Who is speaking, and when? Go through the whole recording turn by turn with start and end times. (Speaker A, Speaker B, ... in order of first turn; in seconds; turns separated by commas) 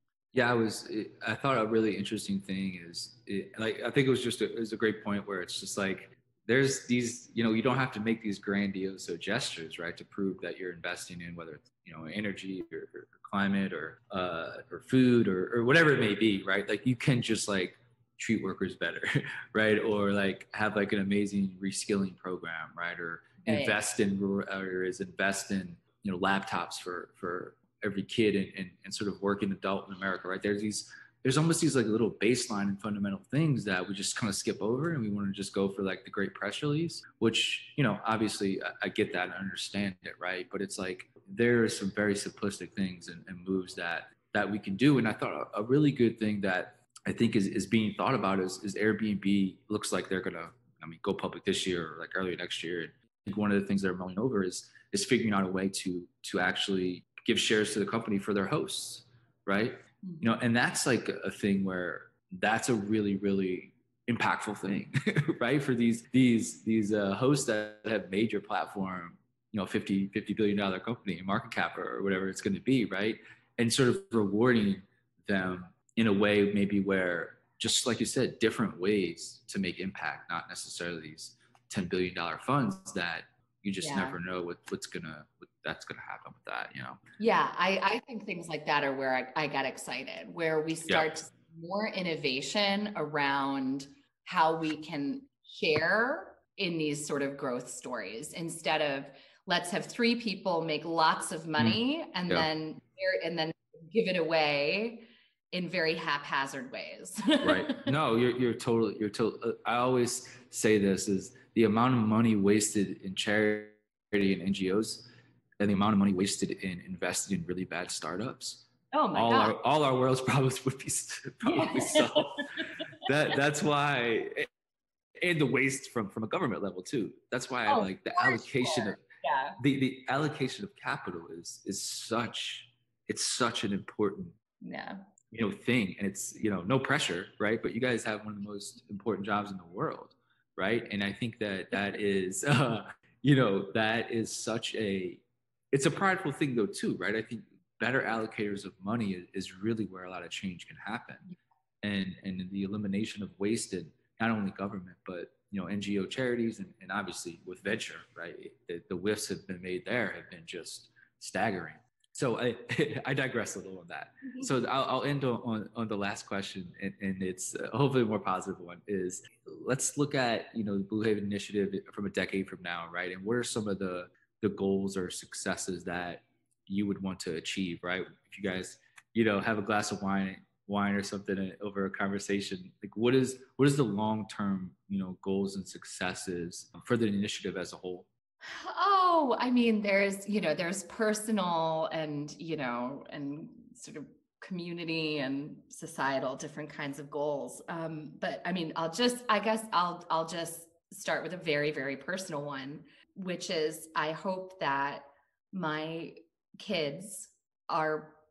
Speaker A: 0.3-87.0, Speaker B: 23.4-23.8, Speaker B: 83.8-84.2, Speaker B: 87.2-107.9, Speaker A: 101.6-102.5, Speaker A: 107.4-115.1, Speaker A: 115.6-124.5, Speaker B: 118.9-119.6, Speaker B: 121.5-122.6, Speaker A: 125.2-129.0, Speaker B: 127.7-129.6, Speaker A: 129.6-134.3, Speaker B: 134.6-135.0, Speaker A: 135.3-151.3, Speaker A: 151.8-188.1, Speaker B: 188.4-208.2